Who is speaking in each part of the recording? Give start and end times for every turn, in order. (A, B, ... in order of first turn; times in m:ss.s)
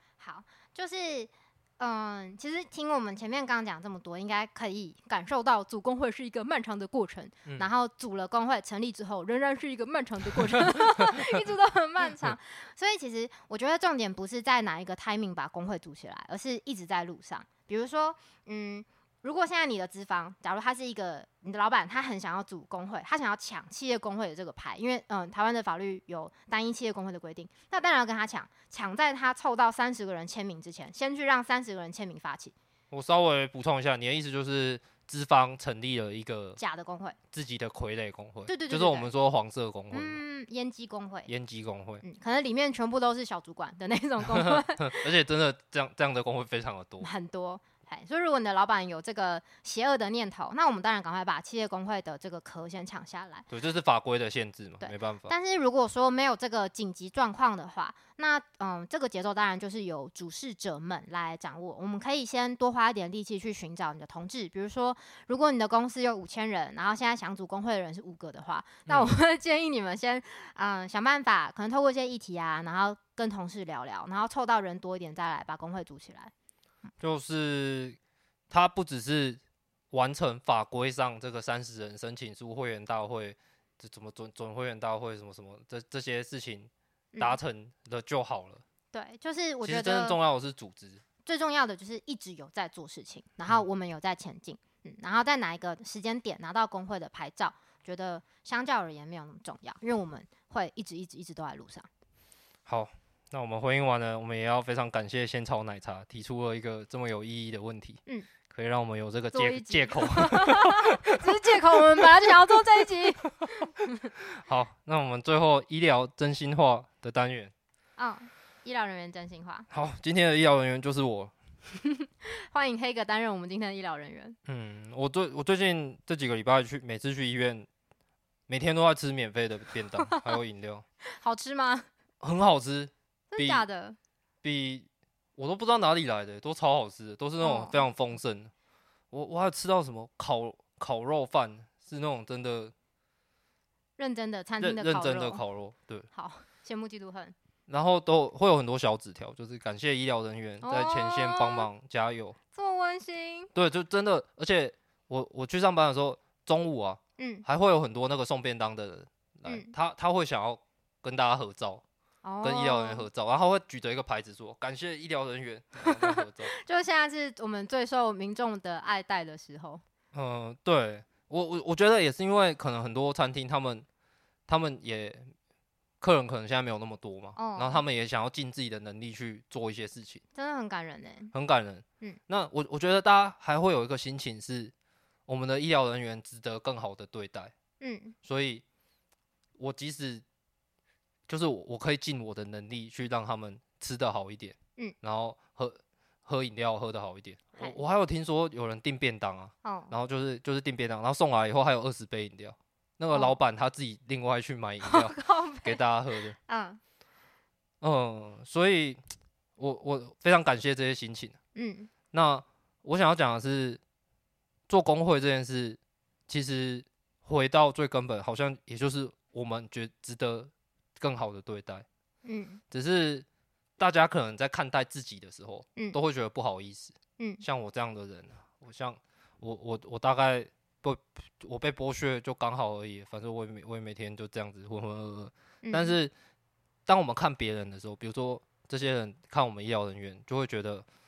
0:00.2-0:32.5 A
0:32.9-0:36.6 B
0:36.6-0:37.2 A
0:37.3-0:40.2 B
0:38.5-0:39.1 A
0:39.9-0:41.3 A
0:41.3-0:42.0 B
0:42.0-0:45.1 A
0:44.3-0:47.1 B
0:47.0-0:53.5 A
0:53.5-0:55.3 B
0:54.8-1:16.3 A
1:08.9-1:09.1 B
1:17.0-1:18.0 B
1:18.5-1:19.4 B
1:19.9-1:28.6 B
1:28.9-1:30.2 A
1:29.6-1:31.0 B
1:31.2-1:41.9 A
1:42.6-1:50.9 B
1:49.3-1:54.1 A
1:54.3-1:57.5 B
1:58.0-1:59.7 A
1:59.7-2:01.3 B
2:02.0-2:04.4 A
2:04.4-2:07.7 B
2:08.5-2:10.8 B
2:11.1-2:11.9 A
2:12.2-2:13.6 B
2:13.3-2:14.0 A
2:14.4-2:18.5 B
2:17.4-2:17.8 A
2:19.1-2:22.7 B
2:24.0-2:25.4 A
2:24.6-2:26.1 B
2:26.1-2:27.3 A
2:27.7-2:32.4 B
2:30.6-2:31.7 A
2:32.5-2:33.5 A
2:33.5-2:41.8 B
2:37.2-2:37.4 A
2:39.5-2:39.7 A
2:42.2-2:43.0 A
2:42.4-2:46.5 B
2:45.8-2:49.8 A
2:50.1-2:53.8 B
2:54.5-2:55.3 B
2:56.0-3:00.2 B
2:57.4-2:57.8 A
3:00.3-3:01.3 A
3:01.3-3:04.7 B
3:05.3-3:07.5 B
3:07.8-3:08.1 A
3:08.2-3:08.6 B
3:09.6-3:10.2 B
3:11.3-3:26.3 B
3:19.6-3:19.9 A
3:24.8-3:25.8 A
3:26.4-3:26.8 A
3:27.8-3:29.0 B
3:29.6-3:31.4 B
3:31.5-3:31.9 A
3:32.1-3:33.8 B
3:34.7-3:41.8 B
3:42.2-3:42.6 A
3:42.7-3:43.2 B
3:43.8-3:56.1 B
3:47.2-3:47.4 A
3:55.6-3:56.0 A
3:56.8-4:00.8 B